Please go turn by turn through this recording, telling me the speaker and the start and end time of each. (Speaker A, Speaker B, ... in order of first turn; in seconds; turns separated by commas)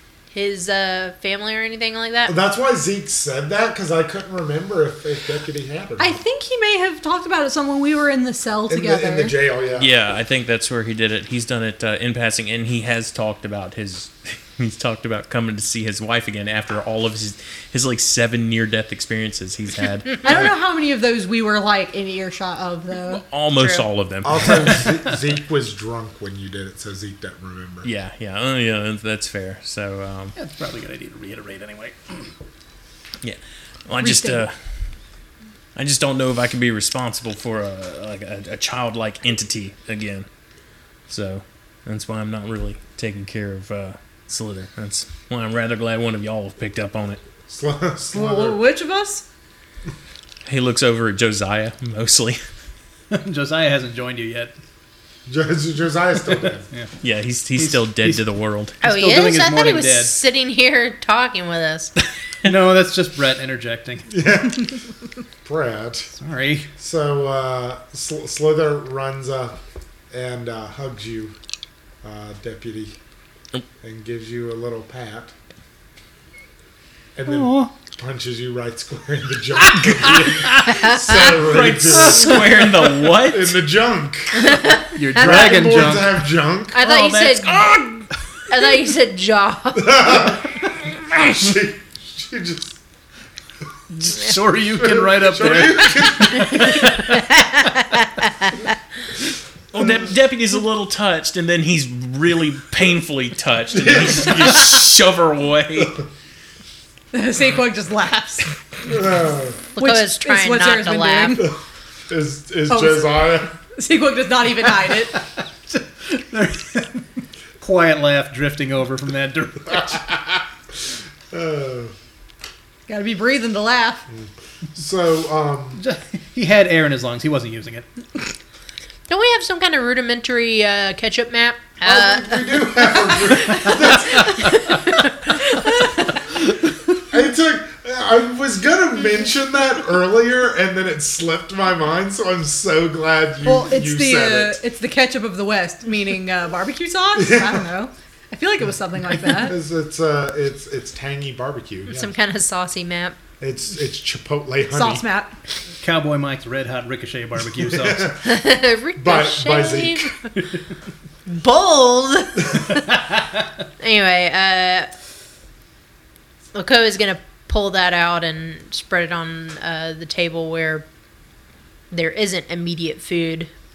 Speaker A: 0.3-2.3, Speaker B: 2.3-6.2, Speaker C: 6.0-9.3, Speaker B: 8.7-9.9, Speaker D: 9.8-20.4, Speaker C: 20.2-23.2, Speaker D: 23.1-24.9, Speaker A: 23.6-23.9, Speaker B: 24.2-27.9, Speaker D: 27.8-30.4, Speaker E: 30.4-32.3, Speaker D: 33.2-34.5, Speaker C: 34.0-34.5, Speaker D: 35.8-40.3, Speaker D: 41.1-47.2, Speaker B: 47.5-48.6, Speaker C: 48.1-49.2, Speaker D: 50.5-52.4, Speaker E: 53.1-54.5, Speaker B: 55.3-56.7, Speaker D: 57.0-58.8, Speaker E: 57.6-58.2, Speaker E: 58.8-60.2, Speaker A: 58.8-61.9, Speaker E: 62.4-64.2, Speaker B: 64.1-64.8, Speaker B: 65.4-66.1, Speaker E: 66.2-66.7, Speaker B: 66.8-69.6, Speaker B: 70.1-71.4, Speaker B: 72.0-73.0, Speaker B: 73.8-75.3, Speaker B: 77.2-82.3, Speaker E: 77.3-77.7, Speaker E: 79.7-80.8, Speaker A: 80.7-81.4, Speaker E: 81.3-82.8, Speaker D: 81.9-83.6, Speaker A: 82.0-82.7, Speaker B: 83.2-84.6, Speaker A: 84.4-85.6, Speaker E: 85.0-86.2, Speaker B: 85.1-86.8, Speaker A: 86.7-90.3, Speaker E: 86.8-87.6, Speaker B: 89.8-92.8, Speaker E: 94.0-97.2, Speaker B: 94.7-96.7, Speaker A: 96.4-98.7, Speaker D: 99.7-106.0, Speaker B: 103.7-104.8, Speaker C: 107.1-108.5, Speaker B: 108.8-109.6, Speaker A: 109.8-111.5, Speaker C: 109.8-111.5, Speaker B: 112.1-113.6, Speaker C: 112.7-113.2, Speaker C: 113.7-115.2, Speaker E: 115.7-117.1, Speaker E: 117.6-120.0, Speaker B: 119.8-120.4, Speaker B: 121.3-121.9, Speaker C: 122.9-124.1, Speaker B: 124.1-125.8, Speaker E: 125.8-127.9, Speaker A: 129.1-136.2, Speaker B: 131.8-134.3, Speaker B: 137.1-144.6, Speaker C: 143.4-149.6, Speaker B: 147.2-147.7, Speaker B: 149.2-152.1, Speaker A: 151.9-153.2, Speaker B: 153.4-155.1, Speaker C: 154.7-155.3, Speaker E: 155.8-158.2, Speaker B: 157.6-158.4, Speaker A: 158.2-160.3, Speaker B: 159.0-160.1, Speaker A: 161.3-162.9, Speaker A: 163.8-164.9, Speaker A: 166.5-170.9, Speaker A: 171.9-173.5